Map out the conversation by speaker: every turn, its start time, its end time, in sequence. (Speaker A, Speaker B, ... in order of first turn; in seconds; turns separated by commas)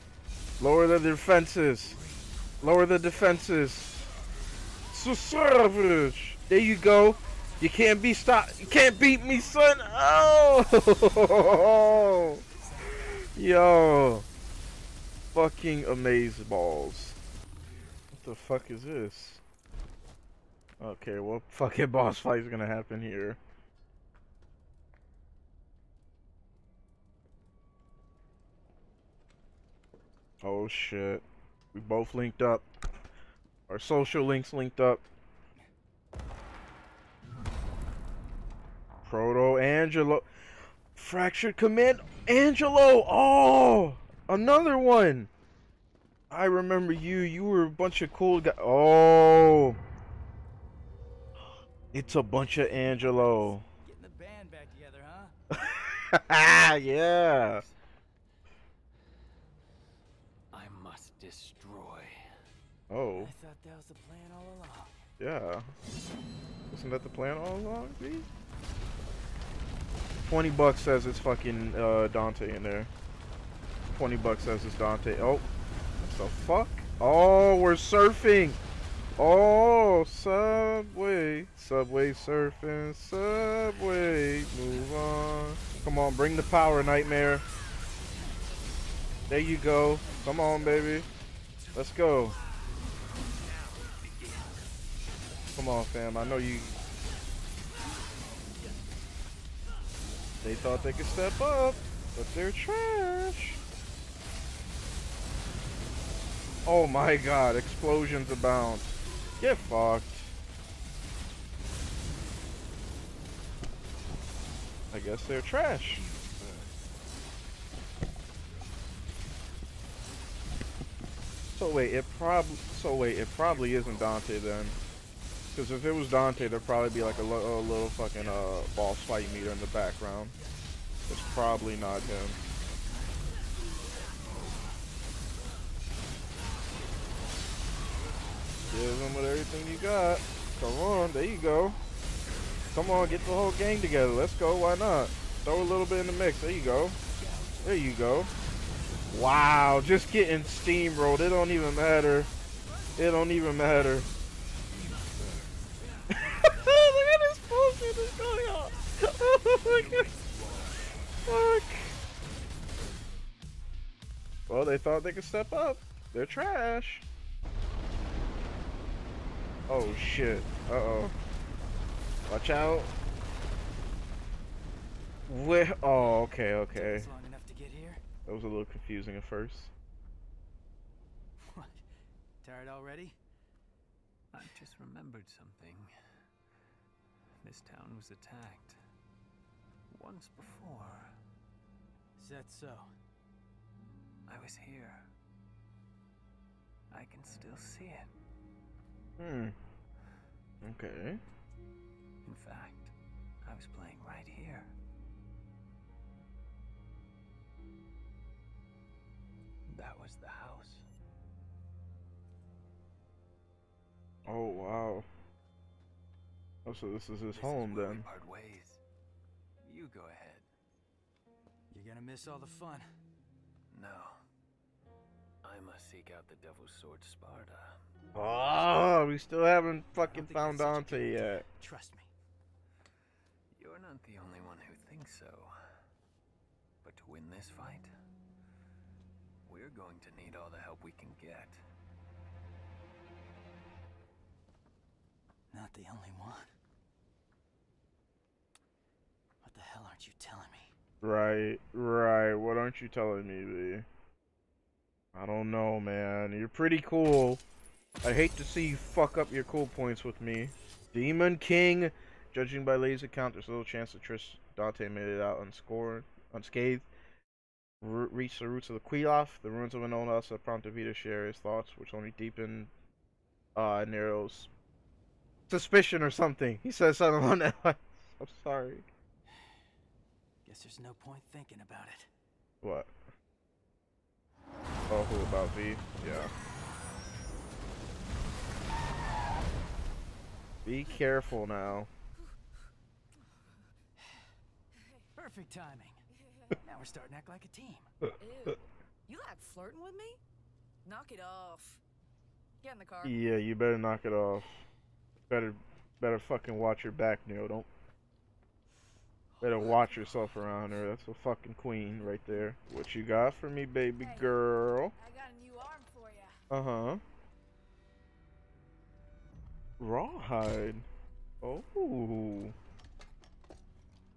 Speaker A: 0.6-2.0, Speaker B: 2.0-2.3, Speaker A: 2.6-4.1, Speaker A: 4.9-12.4, Speaker C: 12.8-13.2, Speaker A: 13.1-14.2, Speaker A: 15.3-17.2, Speaker A: 18.1-19.4, Speaker A: 20.8-23.4, Speaker A: 30.4-32.7, Speaker A: 33.7-35.0, Speaker A: 39.0-40.3, Speaker A: 40.9-45.3, Speaker A: 46.3-49.8, Speaker A: 51.9-53.6, Speaker C: 52.4-55.4, Speaker A: 55.5-57.6, Speaker B: 60.5-62.1, Speaker A: 62.9-63.3, Speaker C: 63.1-65.0, Speaker A: 65.2-65.7, Speaker A: 66.7-68.3, Speaker A: 70.2-72.9, Speaker A: 73.9-75.5, Speaker A: 76.0-78.6, Speaker A: 79.2-87.4, Speaker A: 89.3-91.1, Speaker A: 91.7-92.4, Speaker A: 95.6-96.8, Speaker A: 100.4-103.6, Speaker A: 106.7-110.3, Speaker A: 114.9-116.1, Speaker B: 116.1-116.7, Speaker A: 121.5-124.8, Speaker A: 125.5-130.3, Speaker A: 131.1-132.4, Speaker A: 138.7-141.8, Speaker A: 142.7-147.0, Speaker A: 147.6-148.3, Speaker A: 149.1-152.3, Speaker A: 153.0-154.1, Speaker B: 155.1-155.4, Speaker A: 156.1-160.1, Speaker A: 161.2-161.9, Speaker A: 164.5-167.1, Speaker A: 169.7-171.1, Speaker A: 172.3-172.9, Speaker A: 175.3-177.1, Speaker C: 176.7-178.0, Speaker A: 178.3-179.7, Speaker C: 181.4-181.8, Speaker C: 182.4-183.2, Speaker B: 184.3-185.9, Speaker B: 187.4-188.8, Speaker B: 189.9-191.1, Speaker C: 192.2-192.9, Speaker B: 194.3-195.1, Speaker B: 196.9-198.1, Speaker A: 199.2-199.6, Speaker A: 200.6-201.2, Speaker B: 202.2-202.9, Speaker B: 203.4-204.7, Speaker B: 209.7-210.9, Speaker A: 214.3-215.1, Speaker A: 216.7-218.1, Speaker B: 217.3-218.8, Speaker B: 219.6-220.5, Speaker C: 221.7-222.9, Speaker B: 223.7-224.2, Speaker B: 225.4-227.8, Speaker A: 228.1-231.4, Speaker C: 230.0-232.1, Speaker B: 233.6-235.5, Speaker B: 236.8-237.9, Speaker B: 239.5-241.6, Speaker C: 245.5-246.5, Speaker C: 249.4-250.7, Speaker A: 251.0-253.9, Speaker A: 255.1-257.4, Speaker A: 258.0-266.9, Speaker A: 267.8-272.7, Speaker A: 273.6-274.5, Speaker A: 275.5-278.9, Speaker C: 280.5-282.1, Speaker A: 282.6-282.9, Speaker A: 284.9-286.3, Speaker A: 290.6-291.9, Speaker D: 294.7-295.1, Speaker C: 295.2-296.0, Speaker D: 296.2-296.6, Speaker C: 296.6-297.9, Speaker D: 298.2-300.2, Speaker D: 300.9-301.8, Speaker D: 302.6-303.2, Speaker A: 303.0-304.6, Speaker A: 305.3-307.7, Speaker A: 309.4-314.9, Speaker D: 314.0-314.4, Speaker D: 314.9-316.4, Speaker A: 316.5-317.0, Speaker A: 319.8-320.9, Speaker A: 321.4-322.6